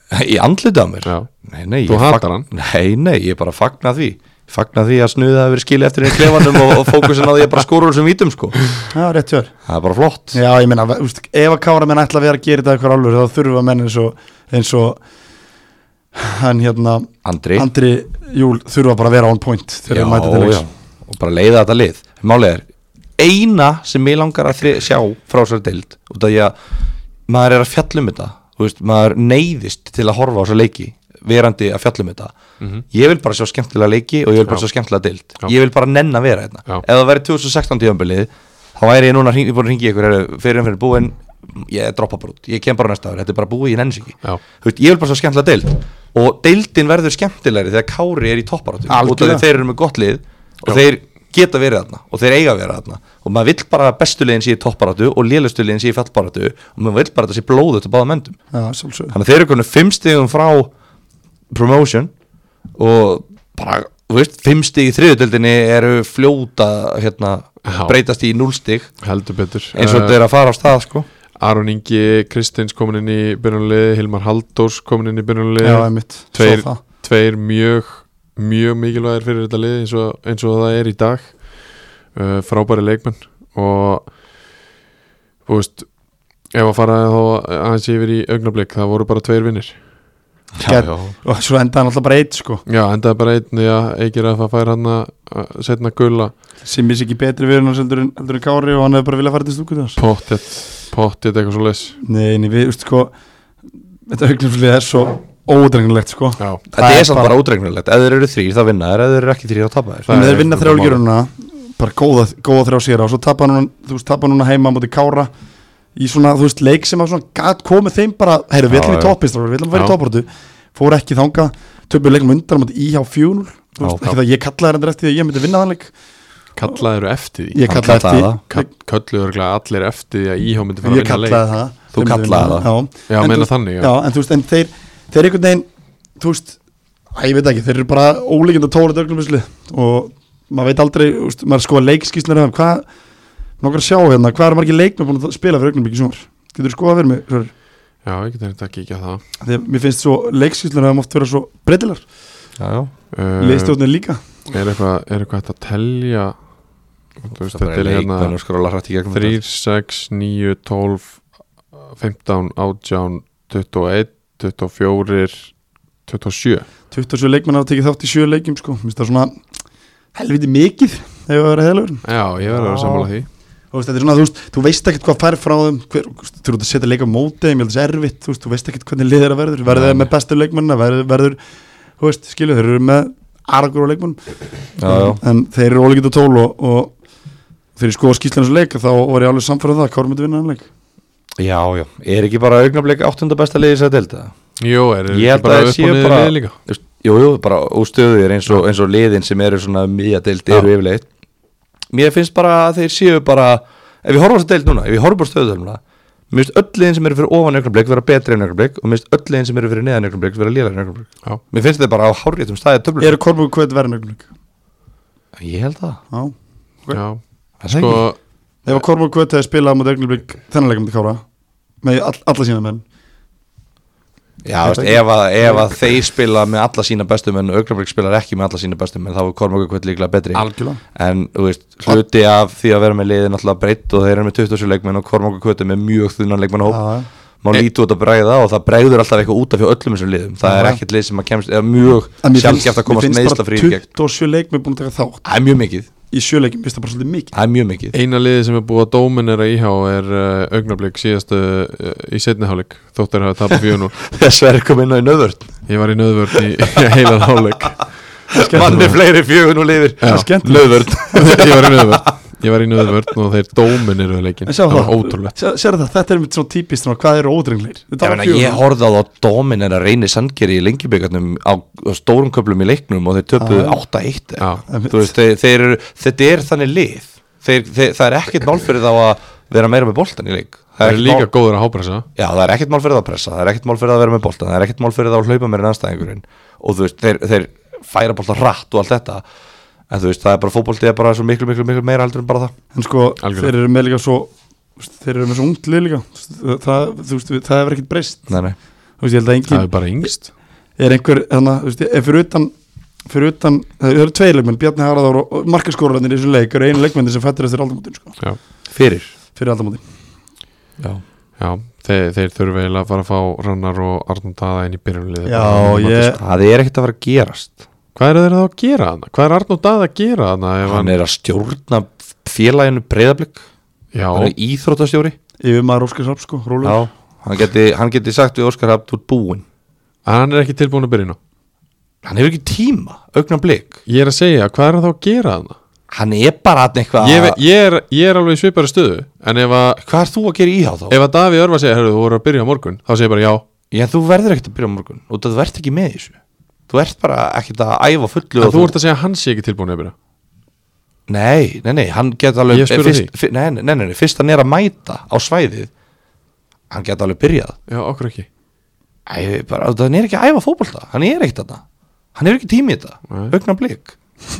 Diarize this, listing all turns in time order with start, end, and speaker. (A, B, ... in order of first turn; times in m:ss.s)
0:00.1-0:08.6 A
0:01.0-0:01.3 B
0:01.8-0:02.5 B
0:08.9-0:09.5 C
0:09.7-0:10.4 A
0:10.3-0:15.0 C
0:16.1-0:20.6 C
0:17.2-0:17.7 A
0:19.9-0:22.6 A
0:23.2-0:26.6 A
0:27.3-0:32.3 A
0:32.9-0:58.4 A
0:48.9-0:49.4 C
0:58.5-0:59.1 C
0:59.1-1:00.7 A
1:01.5-1:02.1 A
1:02.8-1:08.9 A
1:07.6-1:08.0 B
1:09.0-1:10.2 B
1:09.7-1:11.0 A
1:11.4-1:21.3 B
1:15.6-1:16.8 C
1:22.1-1:24.1 B
1:25.4-1:25.9 B
1:26.5-1:29.8 B
1:30.6-1:31.1 A
1:30.6-1:32.6 C
1:32.6-1:36.3 B
1:36.6-1:40.0 C
1:40.0-1:42.0 B
1:42.0-1:43.1 C
1:44.1-1:47.3 C
1:46.7-1:50.2 A
1:50.0-1:51.0 B
1:50.1-1:55.3 C
1:56.0-2:05.9 C
1:58.7-1:59.1 A
2:03.8-2:04.1 A
2:06.6-2:07.7 B
2:07.5-2:08.7 C
2:07.7-2:08.4 A
2:08.5-2:11.4 B
2:10.8-2:15.7 C
2:11.9-2:12.7 A
2:13.1-2:13.9 B
2:16.2-2:16.6 C
2:17.1-2:22.8 C
2:23.6-2:27.5 C
2:28.0-2:29.2 B
2:29.4-2:32.0 C
2:32.6-2:32.9 A
2:33.1-2:33.8 B
2:33.4-2:34.2 C
2:34.5-2:36.4 B
2:37.2-2:38.3 B
2:37.4-2:39.4 A
2:39.1-2:41.2 B
2:41.7-2:45.5 B
2:46.1-2:46.7 B
2:46.9-2:49.3 C
2:50.1-2:53.1 C
2:52.0-2:53.3 B
2:53.7-3:01.4 C
2:59.7-3:00.1 A
3:02.0-3:04.2 C
3:04.8-3:05.2 A
3:04.8-3:06.9 C
3:07.8-3:10.7 C
3:11.4-3:14.3 A
3:14.6-3:16.6 B
3:15.1-3:21.0 A
3:21.9-3:33.2 A
3:33.0-3:34.3 C
3:35.4-3:36.0 A
3:36.1-3:37.0 C
3:36.9-3:38.2 B
3:37.6-3:38.0 A
3:38.6-3:41.2 C
3:41.8-3:42.8 C
3:44.4-3:56.8 A
3:44.6-3:45.7 C
3:50.3-3:50.8 C
3:56.7-3:57.1 C
3:57.4-4:03.8 A
4:00.4-4:00.8 C
4:02.2-4:05.2 C
4:05.2-4:05.9 A
4:06.1-4:07.3 C
4:07.3-4:07.9 A
4:07.9-4:14.0 B
4:14.0-4:15.5 A
4:15.7-4:17.9 B
4:18.3-4:18.9 C
4:18.4-4:22.1 A
4:18.6-4:18.9 B
4:20.0-4:20.3 B
4:20.0-4:21.1 C
4:21.1-4:25.3 B
4:24.4-4:28.6 C
4:28.0-4:41.3 A
4:33.4-4:33.8 C
4:34.7-4:35.1 C
4:40.8-4:42.0 B
4:42.2-4:49.2 A
4:49.9-4:52.5 A
4:52.7-4:58.3 C
4:53.2-4:53.5 B
4:58.3-4:58.6 A
4:59.0-5:00.1 C
4:59.5-5:00.3 B
5:00.8-5:02.5 C
5:03.0-5:08.2 C
5:08.7-5:09.1 A
5:09.3-5:09.8 C
5:11.4-5:16.2 B
5:15.2-5:16.2 C
5:16.2-5:17.6 A
5:17.9-5:21.0 B
5:20.6-5:23.4 A
5:23.9-5:24.3 B
5:24.1-5:25.1 A
5:25.4-5:26.8 C
5:26.6-5:29.4 A
5:30.0-5:31.2 B
5:32.0-5:33.8 A
5:33.9-5:35.6 B
5:35.9-5:37.4 A
5:37.0-5:39.8 B
5:39.8-5:41.0 A
5:40.9-5:43.4 B
5:43.7-5:46.2 A
5:46.7-5:48.7 A
5:48.4-5:49.9 B
5:51.1-5:55.7 A
5:52.5-5:53.1 B
5:56.7-5:57.5 A
5:57.7-5:58.3 B
5:59.1-6:01.6 A
6:02.1-6:03.9 A
6:03.1-6:03.3 B